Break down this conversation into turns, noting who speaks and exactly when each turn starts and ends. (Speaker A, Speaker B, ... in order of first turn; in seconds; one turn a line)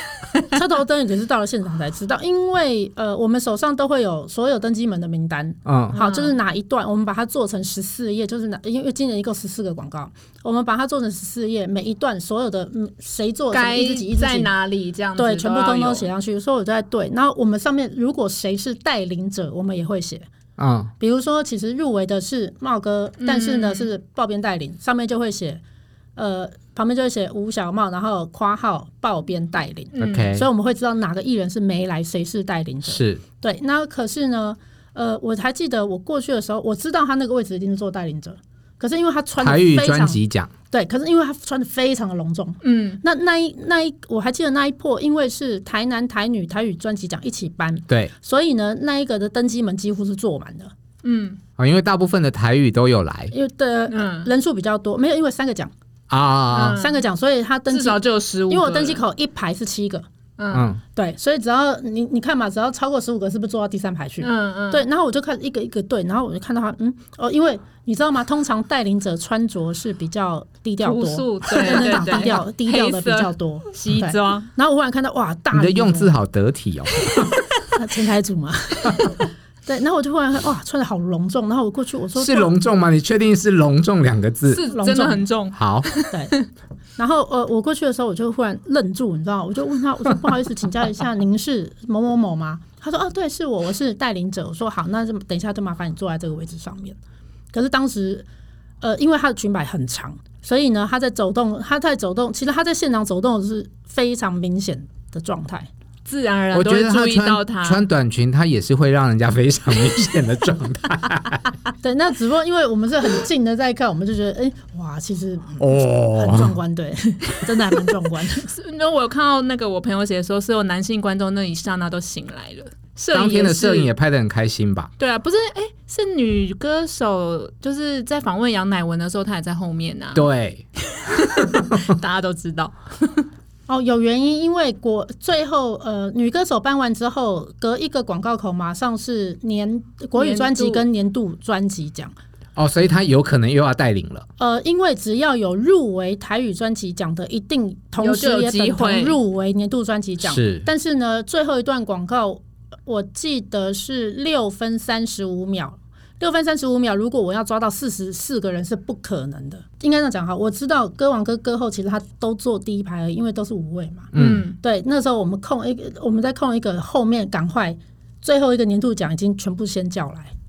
Speaker A: 0.4-14.5
Speaker B: 5.7-6.0
Speaker C: 5.9-6.3
Speaker C: 13.5-16.1
Speaker A: 15.2-20.3
Speaker B: 20.6-20.9
Speaker A: 21.0-25.6
Speaker C: 23.2-23.9
Speaker A: 26.2-40.2
Speaker C: 29.9-30.3
Speaker B: 30.0-30.5
Speaker B: 32.9-33.2
Speaker B: 39.4-40.5
Speaker A: 40.7-50.7
Speaker C: 42.6-43.0
Speaker C: 51.0-51.4
Speaker B: 51.6-53.3
Speaker A: 53.3-55.7
Speaker C: 53.9-54.3
Speaker B: 56.1-56.8
Speaker C: 56.5-57.0
Speaker A: 56.7-60.1
Speaker C: 57.7-59.0
Speaker C: 60.4-60.7
Speaker B: 60.5-60.8
Speaker A: 61.0-76.1
Speaker C: 64.2-64.8
Speaker C: 70.8-74.5
Speaker B: 75.5-77.3
Speaker A: 77.7-82.5
Speaker B: 82.2-84.6
Speaker C: 84.5-86.5
Speaker A: 84.7-85.2
Speaker B: 85.5-85.9
Speaker A: 86.1-86.3
Speaker A: 87.0-97.0
Speaker A: 97.5-98.3
Speaker A: 98.8-105.7
Speaker C: 106.1-107.8
Speaker B: 106.5-111.4
Speaker A: 111.8-118.5
Speaker B: 115.6-116.6
Speaker C: 118.4-123.9
Speaker B: 123.1-124.9
Speaker C: 125.0-130.3
Speaker B: 130.1-130.7
Speaker C: 130.9-133.3
Speaker A: 133.7-142.2
Speaker C: 140.2-140.8
Speaker B: 142.6-144.3
Speaker A: 144.4-170.3
Speaker C: 148.0-149.2
Speaker B: 150.2-150.7
Speaker B: 164.1-164.5
Speaker C: 164.2-164.6